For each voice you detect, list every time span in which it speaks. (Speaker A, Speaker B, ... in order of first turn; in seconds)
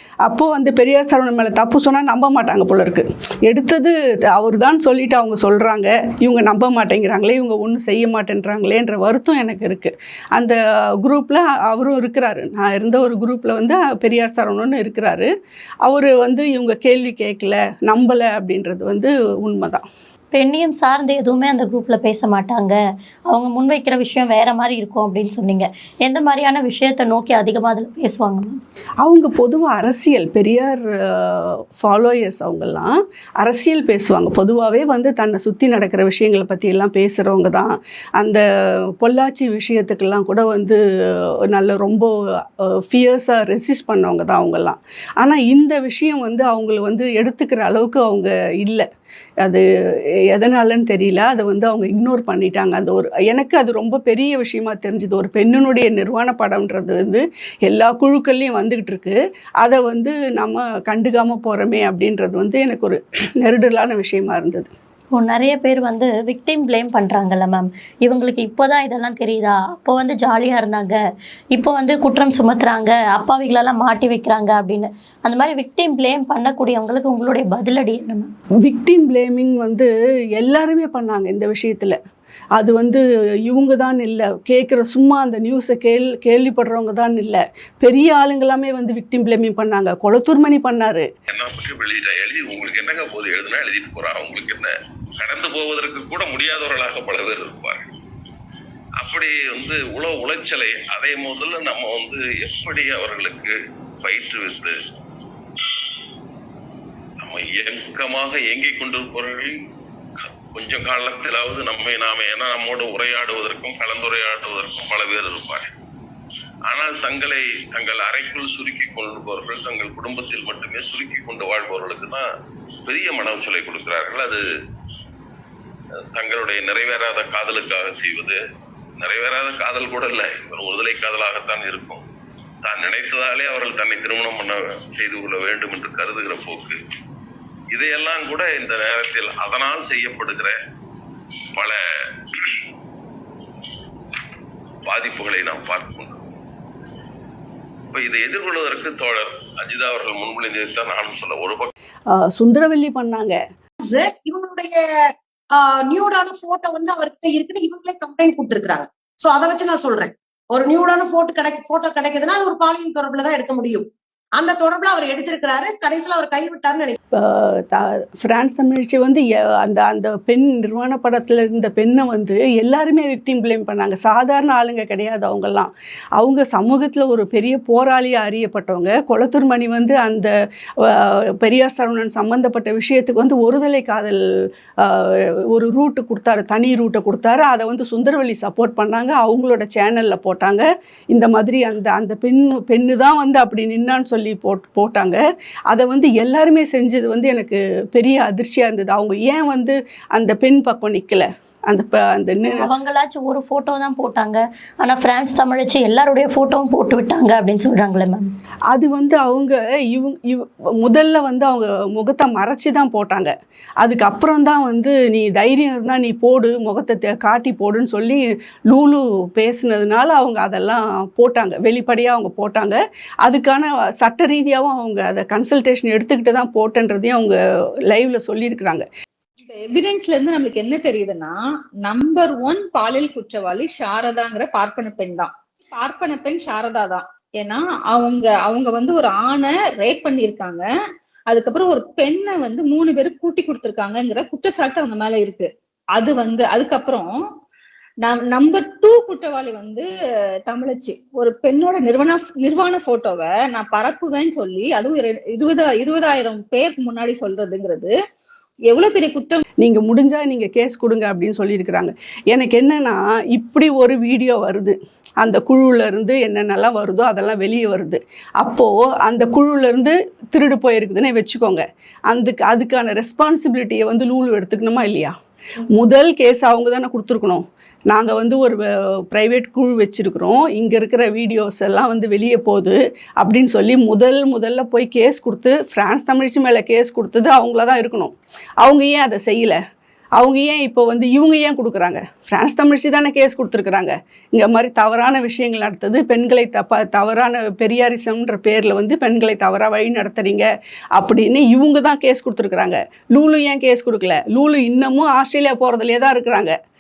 Speaker A: 0.3-15.3, 15.8-19.8, 29.0-38.4, 39.0-40.8, 41.5-48.9, 50.3-64.7, 78.6-82.0, 82.6-91.1, 152.1-153.4, 167.2-180.3, 180.8-184.2, 184.8-202.7, 208.7-227.4, 227.9-228.9, 259.6-275.1, 275.7-289.6, 290.2-306.5
Speaker B: 20.4-28.6, 65.2-71.0, 71.5-78.3, 202.5-208.3
Speaker C: 91.3-97.8, 99.0-104.8, 107.2-109.5, 110.5-115.7, 116.7-122.2, 122.9-124.4, 126.1-128.4, 129.0-132.0, 132.6-136.8, 137.7-140.6, 142.3-142.6, 144.9-146.2, 147.9-151.7
Speaker D: 153.8-154.8, 155.5-166.9
Speaker E: 229.4-240.7, 241.3-247.2, 248.0-249.9, 250.4-257.9, 258.7-259.4